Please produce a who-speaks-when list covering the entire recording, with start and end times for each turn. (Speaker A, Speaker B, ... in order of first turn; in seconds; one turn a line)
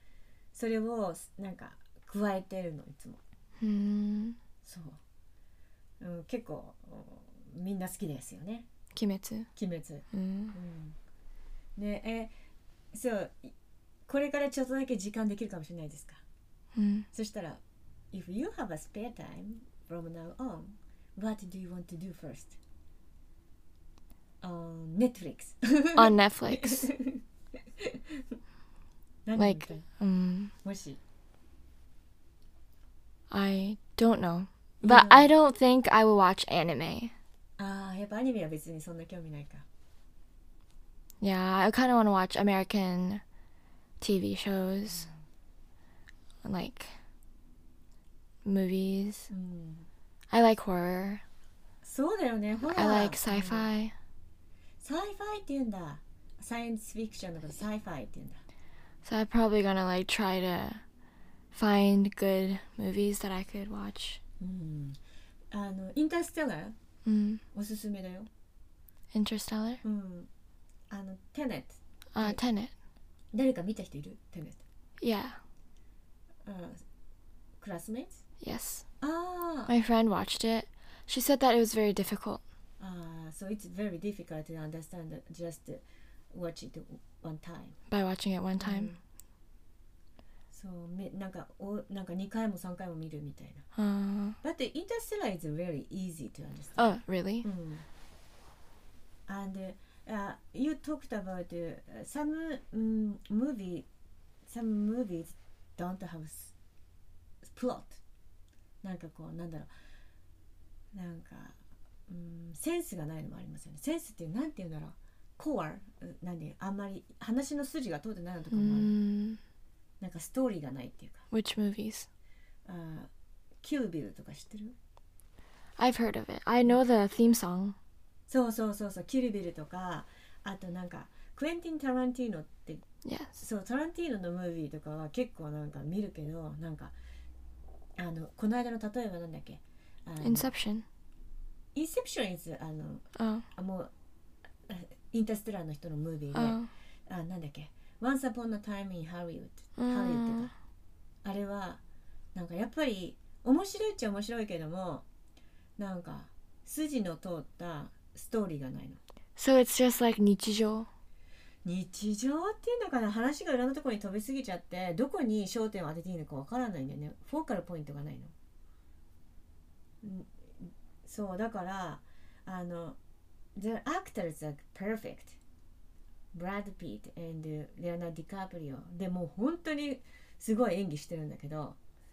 Speaker A: 0.5-3.2
Speaker B: 3.6-4.4
Speaker A: 4.6-5.0
Speaker A: 6.0-8.7
Speaker B: 8.9-9.5
Speaker A: 9.6-10.9
Speaker B: 10.1-10.6
Speaker A: 11.8-12.3
Speaker A: 12.9-13.5
Speaker A: 14.1-16.2
Speaker B: 16.7-17.1
Speaker A: 17.1-17.6
Speaker A: 18.1-22.6
Speaker A: 24.4-27.2
Speaker B: 25.9-26.9
Speaker A: 27.8-28.2
Speaker A: 29.2-29.8
Speaker B: 29.4-30.5
Speaker A: 30.6-31.0
Speaker B: 33.3-37.1
Speaker A: 34.8-35.3
Speaker A: 37.6-39.6
Speaker B: 41.2-43.2
Speaker B: 44.0-45.1
Speaker B: 46.4-46.9
Speaker B: 48.4-49.3
Speaker A: 49.3-49.9
Speaker B: 50.3-51.2
Speaker A: 51.8-53.7
Speaker B: 52.6-53.9
Speaker A: 54.8-58.4
Speaker B: 59.0-60.8
Speaker B: 61.5-64.2
Speaker A: 64.4-65.0
Speaker A: 65.5-66.8
Speaker B: 67.0-67.4
Speaker A: 67.5-68.3
Speaker B: 69.1-69.8
Speaker A: 69.8-70.3
Speaker A: 70.9-72.4
Speaker B: 72.1-72.7
Speaker A: 73.3-74.6
Speaker B: 75.0-75.4
Speaker A: 76.4-76.8
Speaker A: 77.6-78.2
Speaker B: 78.4-78.8
Speaker A: 79.0-79.7
Speaker B: 79.7-82.4
Speaker A: 82.8-87.8
Speaker B: 87.9-88.9
Speaker A: 88.6-89.0
Speaker A: 90.5-93.6
Speaker B: 93.7-94.4
Speaker A: 94.4-97.8
Speaker B: 96.8-97.5
Speaker A: 99.3-103.9
Speaker A: 104.5-106.5
Speaker A: 107.4-108.0
Speaker A: 108.8-109.7
Speaker A: 110.9-111.6
Speaker A: 112.1-118.9
Speaker B: 118.5-119.4
Speaker A: 120.0-121.3
Speaker B: 121.3-122.1
Speaker A: 122.7-123.1
Speaker A: 123.6-124.8
Speaker B: 125.8-127.8
Speaker A: 128.3-132.8
Speaker B: 133.0-133.4
Speaker A: 133.4-136.9
Speaker A: 138.0-140.5
Speaker B: 140.2-140.8
Speaker A: 141.7-143.9
Speaker B: 143.2-143.4
Speaker A: 144.7-150.5
Speaker B: 146.3-146.7
Speaker B: 149.8-150.5
Speaker A: 151.2-151.8
Speaker A: 152.3-155.1
Speaker A: 155.8-159.0
Speaker B: 159.4-160.9
Speaker A: 161.6-168.3
Speaker A: 170.0-173.0
Speaker A: 173.6-175.4
Speaker A: 176.3-181.8